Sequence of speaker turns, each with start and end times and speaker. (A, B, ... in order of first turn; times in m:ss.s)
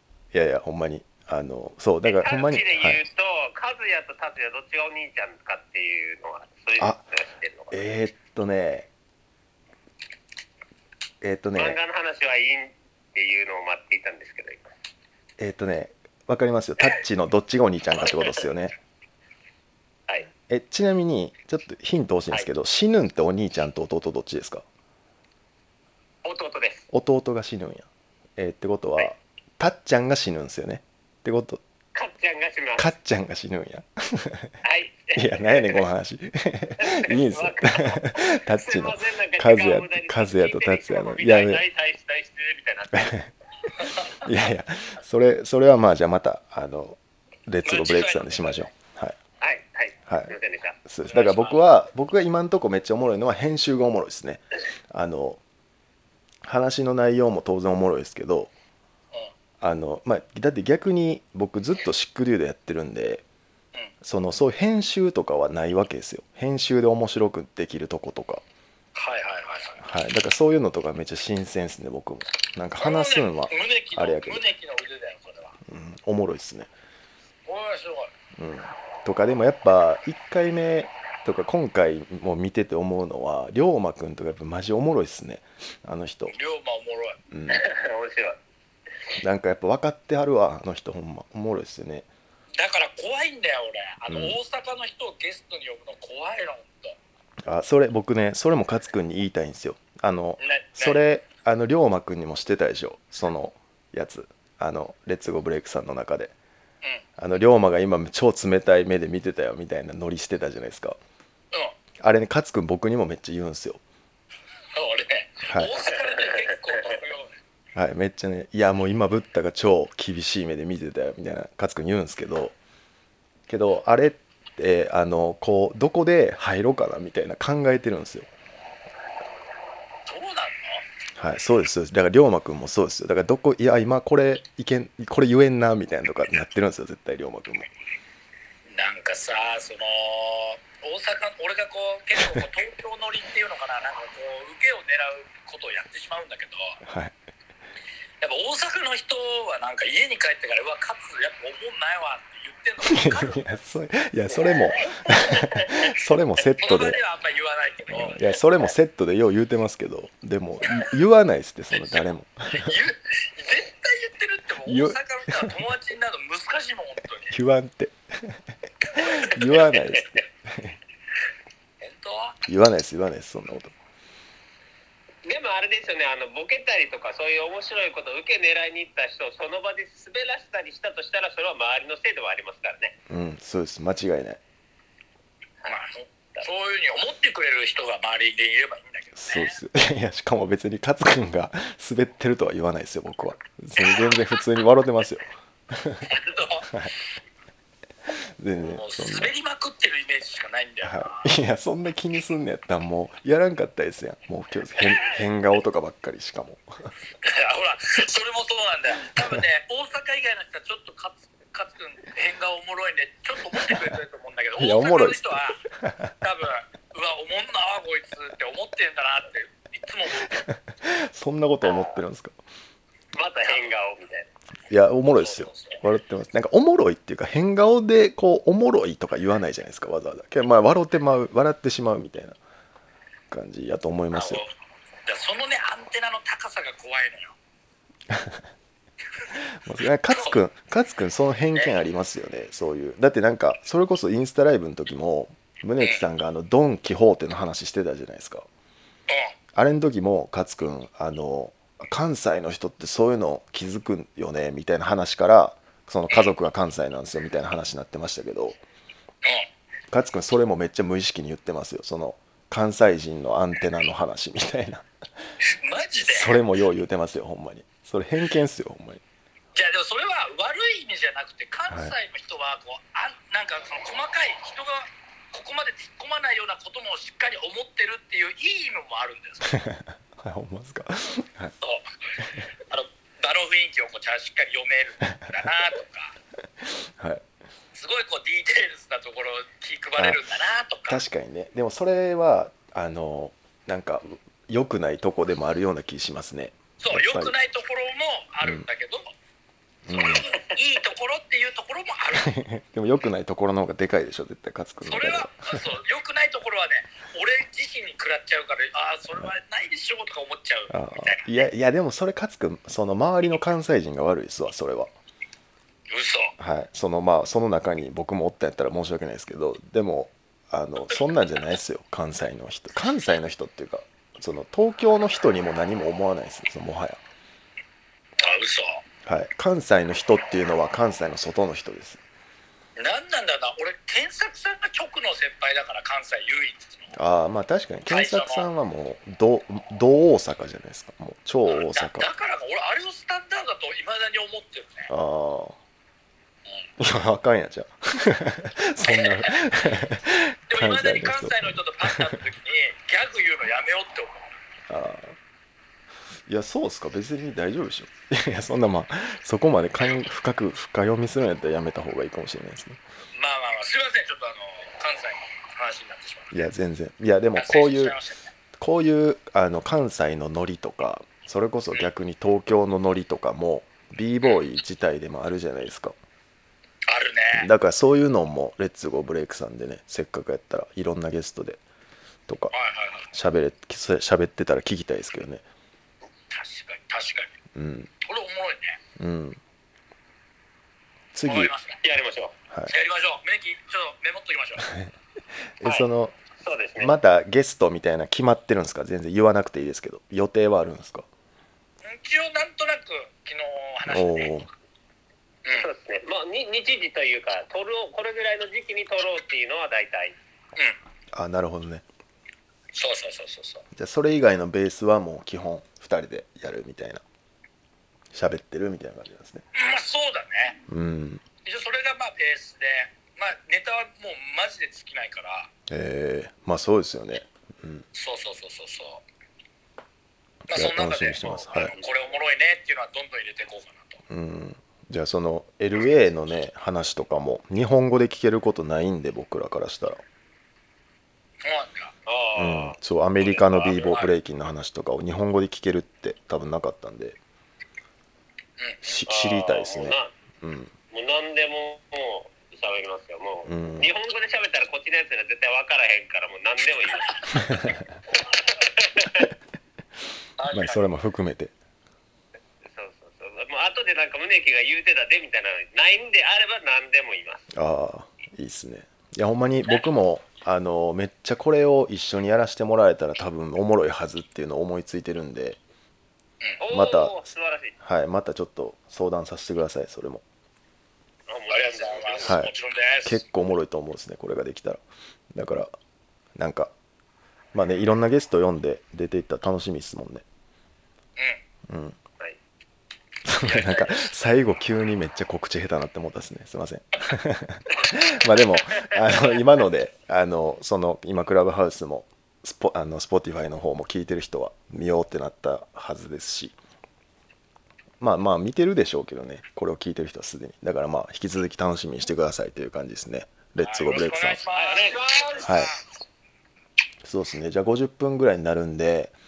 0:00.3-0:03.0 A
0:02.0-0:07.7 B
0:07.7-0:08.9 A
0:11.2-0:11.8 A
0:11.6-0:14.6 B
0:15.4-0:18.7 A
0:20.5-0:24.6 A
0:26.2-0:26.9 B
0:26.9-0:31.6 A
0:31.9-0:32.9 B
0:32.8-0:34.6 A
0:34.6-0:35.8 B
0:35.1-0:41.6 A
0:36.8-0:43.1 B
0:42.9-0:43.3 A
0:43.8-0:44.0 C
0:44.2-0:49.2 A
0:47.6-0:48.6 C
0:49.4-0:50.8 B
0:50.1-0:50.3 A
0:50.8-0:55.4 A
0:51.1-0:51.6 C
0:56.4-0:58.5 A
0:59.6-1:03.2 A
1:04.0-1:08.4 A
1:08.9-1:09.8 C
1:09.8-1:14.4 A
1:12.8-1:15.6 C
1:15.6-1:16.7 A
1:17.4-1:18.1 C
1:18.4-1:26.3 A
1:26.3-1:27.2 C
1:27.3-1:27.6 A
1:27.5-1:28.4 B
1:29.2-1:32.1 A
1:32.6-1:37.0 C
1:34.1-1:34.4 A
1:37.4-1:46.3 A
1:40.4-1:41.0 C
1:47.2-1:51.0 A
1:52.0-1:53.8 A
1:54.7-1:57.4 C
1:55.4-1:55.7 A
1:57.7-2:02.6 A
2:03.5-2:08.3 A
2:10.0-2:10.8 C
2:11.2-2:17.7 A
2:18.7-2:26.8 C
2:26.8-2:27.1 A
2:28.2-2:33.4 C
2:32.8-2:37.0 A
2:36.6-2:38.2 C
2:37.9-2:42.8 A
2:41.8-2:47.4 C
2:44.6-2:45.5 A
2:47.3-2:50.8 A
2:49.0-2:49.5 C
2:49.7-2:50.0 B
2:51.8-2:52.4 C
2:52.4-2:53.7 A
2:55.2-3:02.9 B
3:03.1-3:04.4 A
3:05.6-3:09.6 C
3:09.2-3:16.1 A
3:13.8-3:14.2 C
3:16.1-3:16.7 C
3:18.4-3:19.3 A
3:18.6-3:21.3 C
3:20.8-3:26.9 A
3:27.2-3:35.6 C
3:33.5-3:33.9 A
3:34.6-3:36.1 A
3:36.2-3:40.4 C
3:40.3-3:42.4 A
3:41.6-3:41.9 B
3:43.1-3:44.3 B
3:43.4-3:43.7 C
3:44.7-3:52.4 A
3:45.2-3:45.8 C
3:53.3-3:54.4 A
3:54.2-3:54.5 C
3:55.0-3:57.3 C
3:58.1-3:58.4 A
3:59.3-4:08.4 A
4:05.8-4:06.0 C
4:09.1-4:09.3 C
4:09.5-4:18.6 A
4:19.9-4:24.9 A
4:25.6-4:26.4 C
4:26.0-4:29.0 A
4:29.5-4:39.6 C
4:39.5-4:41.5 A
4:41.6-4:41.9 C
4:42.7-4:46.1 C
4:46.6-4:47.2 A
4:47.7-4:51.0 C
4:50.0-4:50.2 A
4:50.9-4:57.3 A
4:56.8-4:59.1 C
4:58.4-4:58.7 A
4:59.8-5:00.3 A
4:59.9-5:02.4 C
5:02.1-5:05.6 A
5:04.9-5:11.3 C
5:10.7-5:14.9 A
5:15.9-5:16.3 C
5:16.4-5:27.0 A
5:28.2-5:28.8 C
5:29.0-5:32.0 A
5:32.8-5:36.9 C
5:36.9-5:42.1 A
5:37.9-5:38.5 C
5:41.5-5:44.9 C
5:44.9-5:45.6 A
5:46.8-5:52.1 A
5:48.8-5:49.5 C
5:50.5-5:54.4 C
5:54.7-5:55.2 A
5:56.3-6:02.8 A
6:03.1-6:06.3 C
6:06.3-6:08.0 A
6:07.4-6:08.3 C
6:08.6-6:15.9 A
6:16.9-6:17.5 C
6:17.3-6:21.6 A
6:22.3-6:22.5 A
6:22.5-6:23.1 C
6:23.1-6:25.4 A
6:26.3-6:27.3 C
6:27.5-6:27.9 A
6:28.0-6:28.8 C
6:29.0-6:29.4 A
6:31.1-6:31.5 A
6:31.2-6:31.8 C
6:31.8-6:32.3 B
6:32.7-6:34.7 C
6:35.6-6:36.2 A
6:36.4-6:36.9 B
6:36.8-6:41.0 A
6:41.8-6:44.3 C
6:43.9-6:44.5 A
6:45.5-6:50.2 B
6:51.1-6:51.8 A
6:52.7-6:53.6 C
6:53.7-6:57.0 A
6:58.1-6:59.4 A
6:59.5-7:00.6 C
7:00.7-7:01.2 A
7:01.4-7:05.5 C
7:05.7-7:07.8 A
7:07.9-7:09.0 C
7:10.5-7:14.0 C
7:10.5-7:11.7 A
7:14.1-7:20.0 A
7:21.4-7:21.9 C
7:22.0-7:23.9 B
7:22.3-7:27.2 A
7:23.8-7:24.1 C
7:28.6-7:29.0 C
7:28.8-7:30.7 A
7:29.1-7:30.1 B
7:30.9-7:37.7 B
7:33.4-7:33.9 A
7:38.5-7:39.2 B
7:40.4-7:40.9 C
7:40.5-7:41.5 A
7:42.6-7:47.4 B
7:47.5-7:55.6 A
7:56.6-7:57.7 B
7:56.7-7:57.2 A
7:57.8-8:00.2 A
8:01.3-8:02.3 B
8:01.5-8:03.2 C
8:02.2-8:02.5 A
8:03.0-8:04.8 A
8:05.3-8:05.7 A
8:06.4-8:06.7 A
8:07.5-8:10.2 A
8:11.7-8:12.0 A
8:13.2-8:26.6 A
8:13.4-8:14.1 C
8:28.0-8:34.4 A
8:33.6-8:35.7 C
8:34.6-8:35.6 B
8:35.4-8:35.7 A
8:37.0-8:39.1 A